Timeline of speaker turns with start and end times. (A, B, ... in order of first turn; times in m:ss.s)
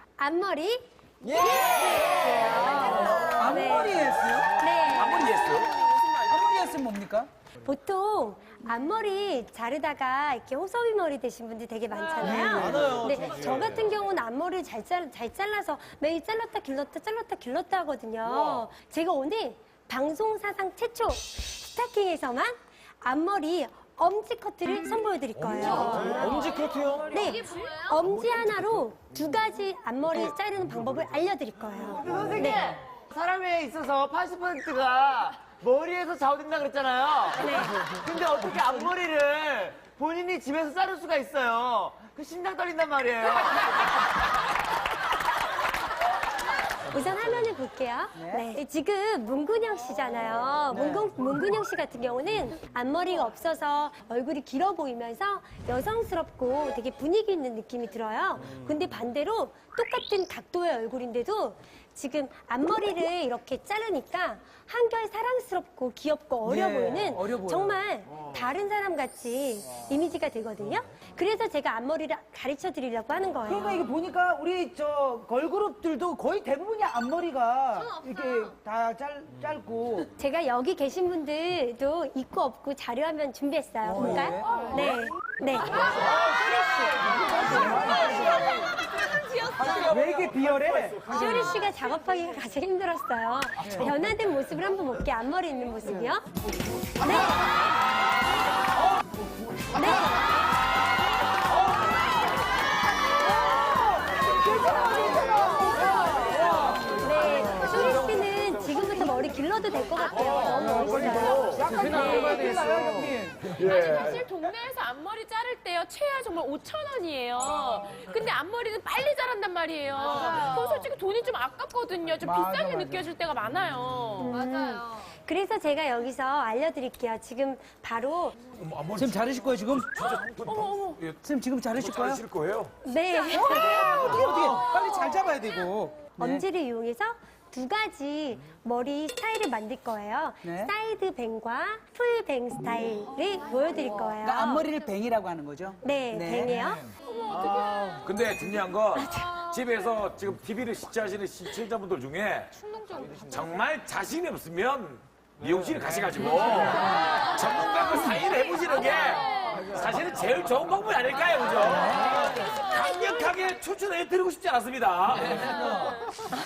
0:00.2-0:05.3 A
0:03.2-0:04.6 B
0:04.8-0:06.1 C
0:06.2-0:07.3 B
0:07.6-0:32.7 A
0:12.2-0:13.1 B
0:12.9-0:13.8 C
0:25.4-0:25.7 C
0:25.8-0:28.0 D
0:28.2-0:28.7 B
0:31.8-0:43.7 E
0:37.4-0:37.8 A
0:46.9-1:13.9 A
0:48.2-0:48.5 B
0:50.7-0:51.1 B
1:06.4-1:07.8 B
1:13.5-1:20.1 B
1:20.2-1:28.0 A
1:23.8-1:24.7 B
1:27.1-1:28.6 B
1:27.6-1:30.0 D
1:29.6-1:31.1 B
1:31.0-1:36.2 A
1:31.1-1:31.5 D
1:33.6-1:33.9 B
1:37.0-1:37.4 A
1:39.7-1:40.2 A
1:44.4-1:45.7 B
1:45.4-1:46.6 D
1:46.2-1:46.9 B
1:46.9-1:52.5 A
1:50.8-1:53.6 B
1:51.1-1:52.9 D
1:53.5-2:04.4 D
2:02.2-2:03.1 B
2:04.2-2:08.4 A
2:08.5-2:11.2 C
2:08.9-2:09.9 B
2:10.0-2:11.0 D
2:11.2-2:12.2 B
2:11.8-2:12.7 C
2:12.8-2:14.2 A
2:13.3-2:16.4 B
2:13.5-2:14.2 D
2:16.2-2:24.7 A
2:20.4-2:20.7 B
2:24.2-2:26.6 B
2:25.8-2:26.9 A
2:27.1-2:28.1 D
2:28.0-2:32.5 C
2:28.9-2:29.3 A
2:32.5-2:33.7 D
2:33.3-2:45.9 C
2:36.9-2:40.1 D
2:41.9-2:42.6 D